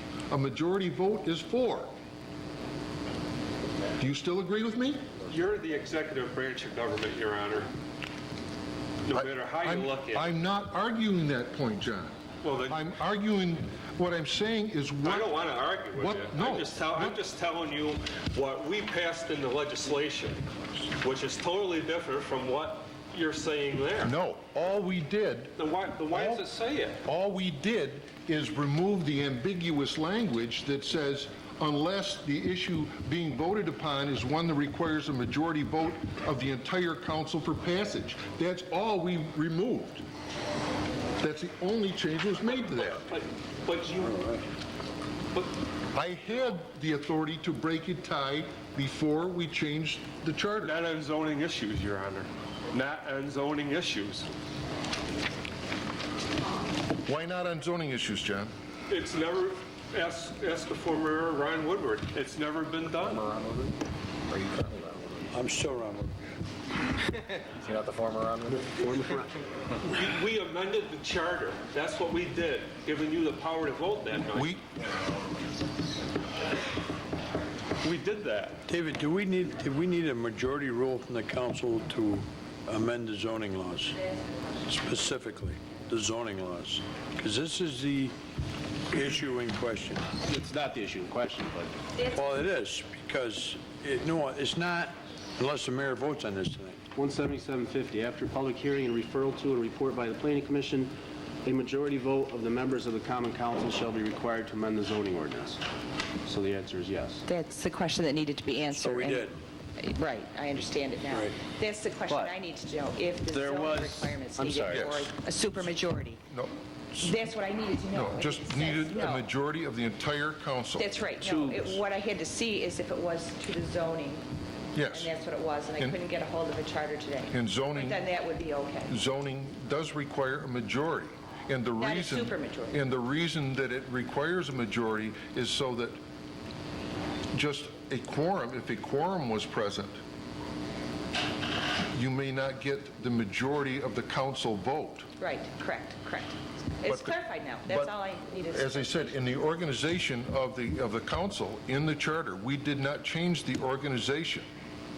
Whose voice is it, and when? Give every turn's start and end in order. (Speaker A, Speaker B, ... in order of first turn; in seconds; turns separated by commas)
Speaker A: 0.3-1.9, Speaker A: 4.0-5.1, Speaker B: 5.3-7.7, Speaker B: 9.1-10.3, Speaker A: 9.1-12.2, Speaker B: 12.4-12.8, Speaker A: 12.7-15.3, Speaker B: 15.0-20.4, Speaker A: 15.9-17.2, Speaker B: 21.0-24.1, Speaker A: 24.0-25.6, Speaker B: 25.6-27.0, Speaker A: 26.1-26.5, Speaker A: 27.1-40.0, Speaker A: 41.2-43.0, Speaker B: 42.9-44.2, Speaker C: 44.0-44.5, Speaker A: 45.9-50.8, Speaker B: 50.6-54.3, Speaker A: 57.1-58.5, Speaker B: 58.9-63.3, Speaker D: 63.1-63.8, Speaker D: 64.3-65.3, Speaker C: 65.3-66.1, Speaker D: 67.4-68.8, Speaker E: 68.7-69.2, Speaker B: 69.9-74.5, Speaker A: 74.3-74.6, Speaker B: 77.8-78.6, Speaker C: 78.7-84.0, Speaker C: 84.7-88.2, Speaker C: 88.9-90.1, Speaker E: 90.2-91.8, Speaker C: 92.1-96.8, Speaker E: 97.0-100.9, Speaker E: 101.4-105.6, Speaker E: 106.3-107.2, Speaker F: 107.3-116.2, Speaker C: 108.7-109.3, Speaker E: 113.3-114.9, Speaker A: 114.7-115.1, Speaker A: 116.3-117.3, Speaker F: 117.0-119.2, Speaker A: 117.9-120.9, Speaker F: 120.8-124.2, Speaker E: 121.2-121.8, Speaker A: 124.8-125.1, Speaker F: 124.9-128.9, Speaker A: 127.3-128.1, Speaker A: 128.9-136.0, Speaker F: 131.8-132.8, Speaker A: 137.3-140.0, Speaker A: 141.9-145.1, Speaker F: 145.2-149.1, Speaker A: 146.9-147.9, Speaker A: 148.5-154.5